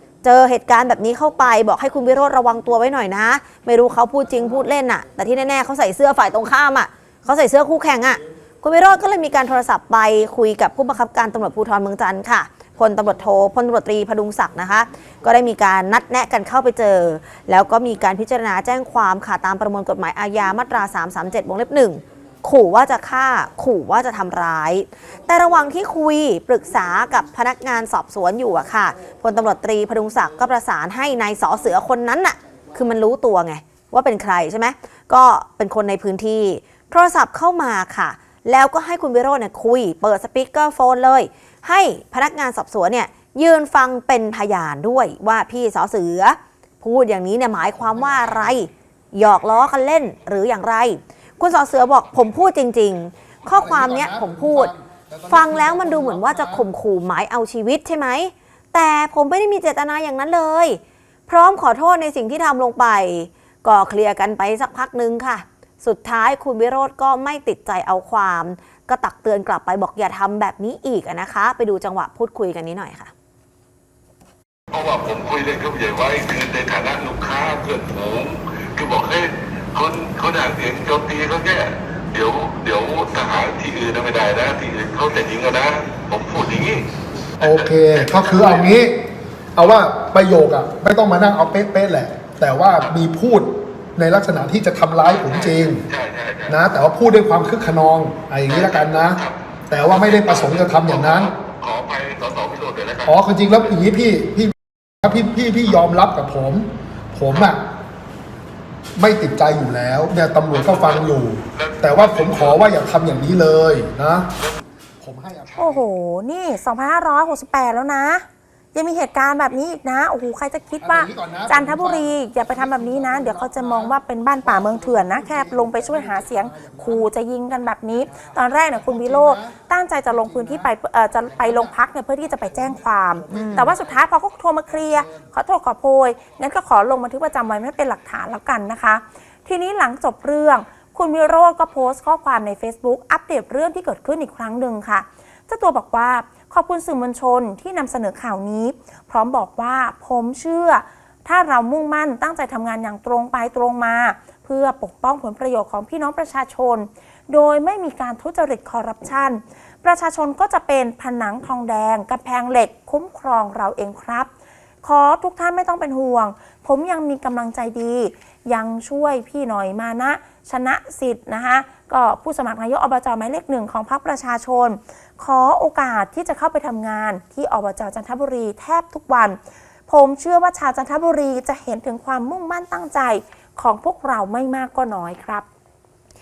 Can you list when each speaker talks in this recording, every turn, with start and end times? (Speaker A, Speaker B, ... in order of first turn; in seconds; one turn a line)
Speaker A: 0.2-54.7
Speaker B: 53.5-56.7
Speaker A: 55.3-73.1
Speaker C: 74.7-86.9
Speaker C: 87.4-88.7
Speaker B: 87.4-95.8
Speaker C: 95.0-96.6
Speaker B: 96.5-101.3
Speaker C: 98.5-103.8
Speaker B: 103.0-107.6
Speaker C: 107.3-107.5
Speaker B: 109.0-114.3
Speaker C: 110.5-112.7
Speaker B: 115.0-115.8
Speaker D: 115.6-164.3
Speaker B: 120.8-127.1
Speaker B: 128.1-130.7
Speaker B: 131.3-134.0
Speaker A: 133.3-133.7
Speaker B: 134.7-135.3
Speaker D: 164.8-185.4